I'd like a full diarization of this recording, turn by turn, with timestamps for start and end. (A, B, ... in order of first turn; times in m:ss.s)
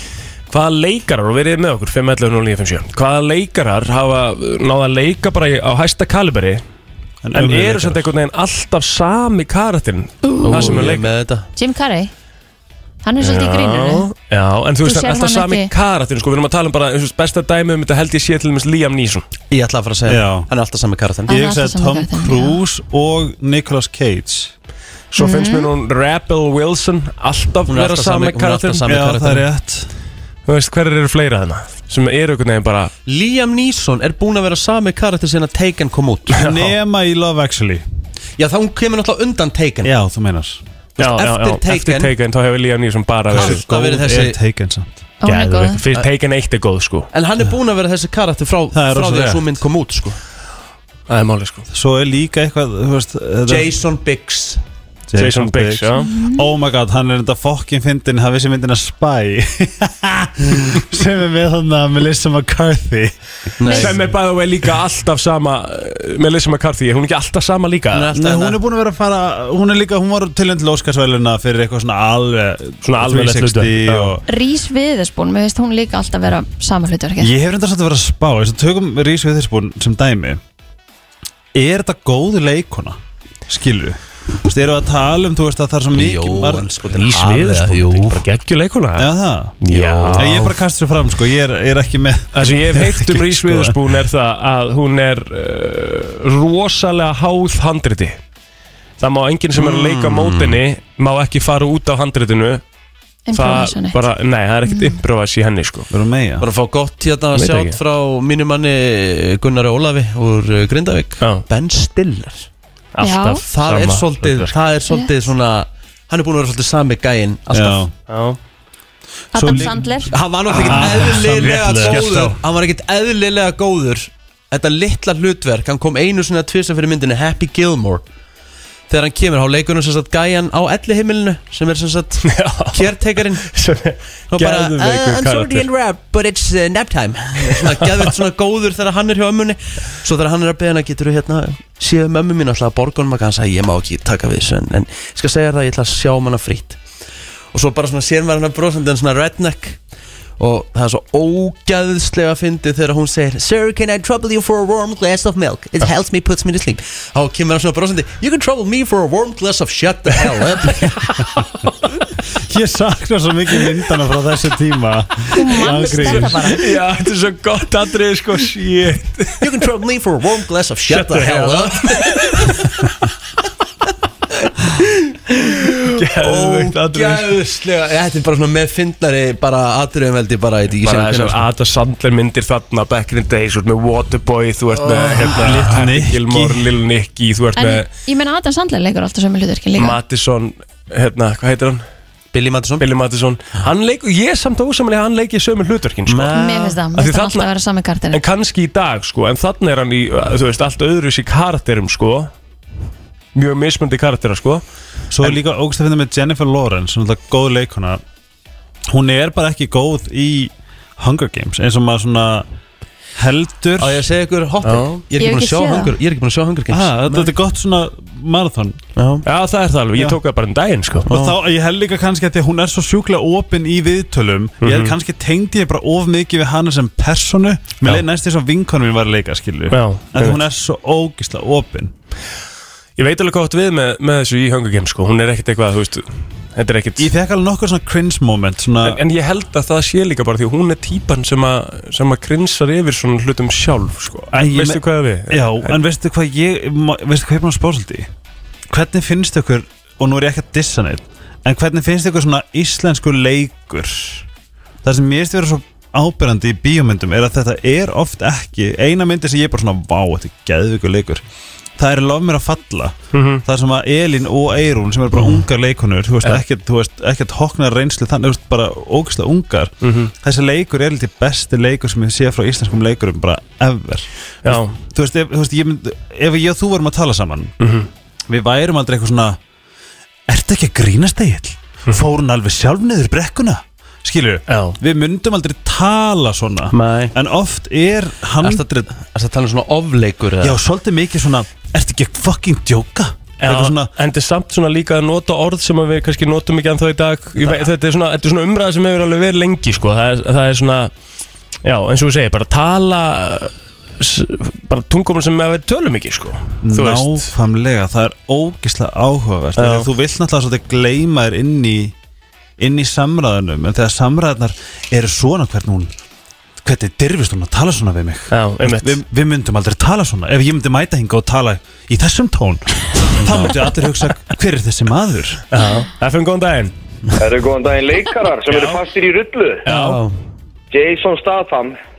0:00.5-0:06.6 A
0:07.2-0:08.0 B
0:07.3-0:11.1 A
0:10.3-0:10.8 C
0:10.4-0:11.5 D
0:11.5-0:12.1 C
0:13.0-0:14.1 C
0:13.2-0:19.2 A
0:14.8-0:15.7 C
0:19.5-0:21.3 D
0:20.0-0:20.5 B
0:21.3-0:24.5 B
0:21.3-0:22.6 C
0:25.1-0:28.9 A
0:25.2-0:25.7 C
0:27.7-0:29.4 D
0:28.8-0:29.9 B
0:30.4-0:32.9 A
0:33.0-0:36.4 D
0:36.3-0:37.8 B
0:36.4-0:36.7 A
0:38.4-0:39.9 D
0:39.8-0:40.6 B
0:41.0-0:42.1 D
0:41.0-0:43.6 A
0:43.3-0:44.9 B
0:43.3-0:44.4 D
0:45.2-0:45.8 C
0:45.2-0:47.1 A
0:47.1-0:50.2 D
0:48.7-0:49.5 B
0:51.1-0:51.7 A
0:51.7-0:53.7 B
0:53.5-0:54.6 D
0:55.1-1:03.2 B
0:55.1-0:56.1 A
0:56.0-0:56.4 C
1:03.6-1:04.0 D
1:03.6-1:08.1 A
1:03.7-1:04.1 B
1:07.9-1:08.6 D
1:08.1-1:14.2 B
1:12.8-1:14.2 A
1:14.3-1:17.3 C
1:17.2-1:20.4 B
1:21.5-1:26.7 B
1:25.9-1:28.2 D
1:26.9-1:29.1 A
1:29.0-1:29.6 B
1:29.6-1:30.5 A
1:29.7-1:30.5 D
1:30.2-1:33.8 B
1:32.3-1:38.2 A
1:39.0-1:42.6 A
1:39.6-1:40.6 D
1:43.3-1:44.0 C
1:43.3-1:45.9 A
1:44.6-1:45.0 C
1:45.9-1:46.4 B
1:46.4-1:52.5 D
1:47.3-1:47.8 A
1:52.9-1:54.5 A
1:53.0-1:53.4 C
1:53.4-1:57.8 D
1:57.5-1:57.9 B
1:58.1-1:58.4 A
1:59.3-2:00.1 C
1:59.3-2:02.4 B
1:59.4-2:08.0 D
2:00.5-2:02.1 A
2:08.9-2:13.5 D
2:12.3-2:12.9 A
2:13.4-2:15.6 A
2:14.3-2:26.8 D
2:17.5-2:18.1 A
2:27.5-2:29.8 D
2:30.4-2:41.0 D
2:42.4-2:46.6 B
2:45.3-2:46.6 C
2:46.0-2:49.5 A
2:49.4-2:52.6 D
2:50.9-2:52.6 A
2:55.1-3:01.4 D
2:55.9-2:57.3 A
3:00.8-3:07.9 A
3:04.8-3:05.7 D
3:04.9-3:06.7 B
3:07.6-3:10.0 C
3:09.8-3:11.8 A
3:12.3-3:12.8 D
3:12.8-3:16.4 A
3:16.1-3:16.8 D
3:16.3-3:18.2 C
3:16.9-3:17.5 A
3:18.1-3:22.3 A
3:23.3-3:24.6 A
3:25.1-3:28.0 B
3:28.9-3:32.5 B
3:33.2-3:34.1 B
3:33.8-3:37.3 D
3:35.2-3:35.9 C
3:36.7-3:38.8 B
3:39.0-3:39.2 D
3:39.2-3:41.1 A
3:41.1-3:41.4 D
3:41.1-3:51.9 B
3:44.6-3:44.9 A
3:49.7-3:50.4 A
3:53.0-3:57.1 A
3:57.0-3:59.0 B
3:58.8-4:05.8 A
4:04.3-4:08.1 B
4:08.7-4:14.3 B
4:14.8-4:21.2 B
4:21.8-4:37.5 B
4:23.1-4:23.4 A
4:29.8-4:30.1 A
4:34.4-4:34.8 A
4:37.6-4:37.9 A
4:38.3-4:39.4 B
4:40.3-4:48.9 B
4:44.5-4:44.8 A
4:46.7-4:47.1 D
4:48.4-4:50.6 D
4:50.4-4:53.9 B
4:53.4-5:00.9 A
5:01.6-5:07.3 A
5:06.6-5:11.9 B
5:09.6-5:09.9 A
5:12.6-5:15.9 B
5:16.6-5:25.4 B
5:18.3-5:19.0 A
5:23.2-5:23.5 D
5:25.5-5:26.7 A
5:27.2-5:29.6 E
5:28.5-5:28.8 A
5:29.6-5:30.0 A
5:29.7-5:30.2 D
5:30.7-5:31.7 E